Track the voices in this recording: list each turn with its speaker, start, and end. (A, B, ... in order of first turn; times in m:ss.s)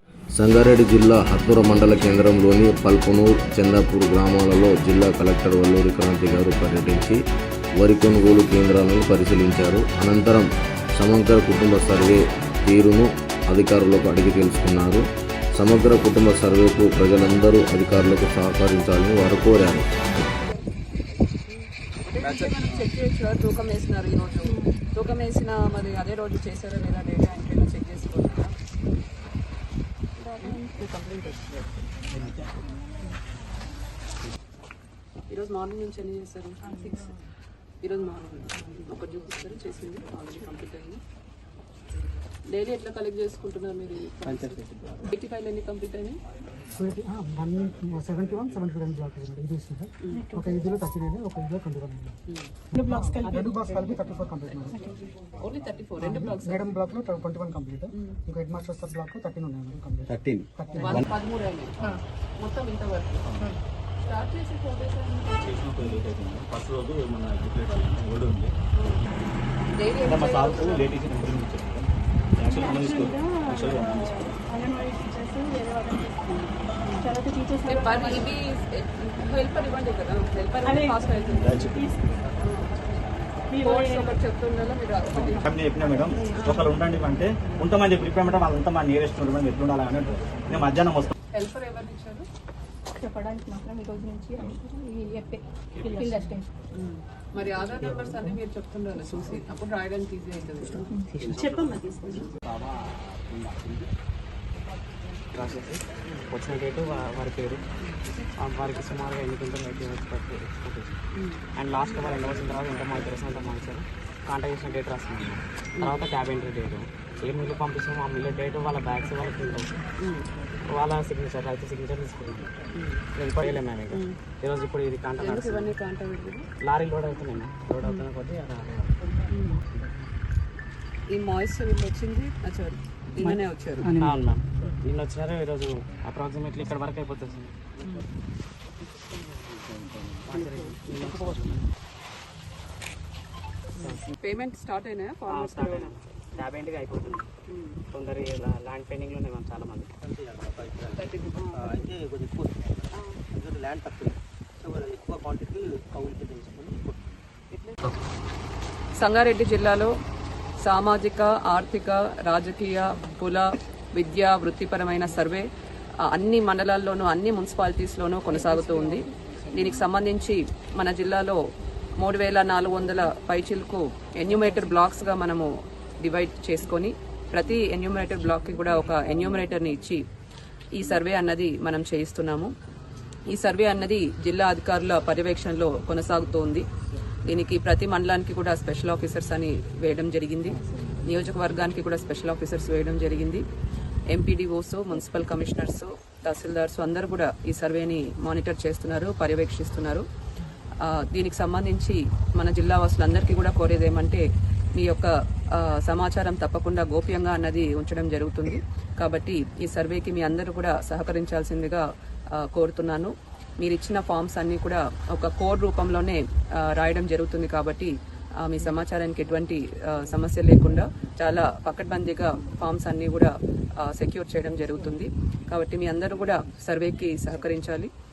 0:00.3-0:07.2 A
0:07.8-0:15.0 A
0:15.6-0:19.9 A
0:21.5-0:28.5 B
0:22.2-0:22.9 C
0:30.4-0:31.7 B
0:32.2-0:32.5 C
0:35.3-0:36.6 B
0:36.7-0:37.1 D
0:37.8-0:41.0 B
0:42.5-0:46.2 B
0:44.3-0:45.0 C
0:46.8-0:52.2 E
0:50.0-0:50.3 B
0:50.2-0:50.6 D
0:52.7-0:53.6 D
0:52.8-0:54.9 E
0:55.4-0:56.8 B
0:56.0-1:01.0 E
0:57.9-0:58.2 B
1:00.8-1:03.3 B
1:04.1-1:05.3 B
1:05.4-1:08.5 F
1:08.8-1:09.0 B
1:09.8-1:10.9 B
1:10.0-1:14.3 F
1:12.5-1:18.3 D
1:16.3-1:21.6 B
1:20.6-1:22.2 D
1:21.4-1:21.9 F
1:22.4-1:23.0 B
1:23.5-1:24.2 D
1:23.5-1:25.5 B
1:25.3-1:31.1 F
1:26.0-1:26.4 D
1:26.2-1:26.6 B
1:31.3-1:32.3 B
1:33.0-1:36.5 D
1:36.7-1:40.9 B
1:40.9-1:42.3 D
1:41.2-1:41.7 C
1:41.3-1:41.8 G
1:42.4-1:43.9 C
1:45.3-1:47.6 G
1:47.8-1:48.0 B
1:48.4-1:51.0 G
1:51.1-1:51.4 B
1:51.6-1:59.8 G
1:55.8-1:56.0 B
2:00.0-2:00.3 B
2:00.7-2:02.5 G
2:02.8-2:04.2 B
2:03.2-2:05.7 G
2:05.2-2:06.5 B
2:06.6-2:09.1 G
2:09.3-2:09.6 B
2:11.1-2:13.9 B
2:13.9-2:14.2 E
2:14.0-2:17.5 G
2:19.1-2:19.6 G
2:20.2-2:21.6 G
2:20.3-2:20.8 B
2:23.8-2:24.1 G
2:23.8-2:26.0 B
2:25.3-2:27.3 G
2:27.1-2:27.8 B
2:27.9-2:29.9 G
2:30.0-2:37.2 C
2:31.0-2:31.7 B
2:37.5-2:37.8 B
2:39.0-2:39.9 B
2:40.6-2:45.5 B
2:46.1-2:51.4 B
2:52.0-3:00.0 B
3:00.8-3:02.5 B
3:03.3-3:06.6 B
3:07.3-3:13.4 B
3:14.1-3:20.0 B
3:20.8-3:24.2 B
3:24.8-3:31.8 B
3:32.4-3:37.9 B
3:38.4-3:43.3 B
3:43.8-3:47.9 B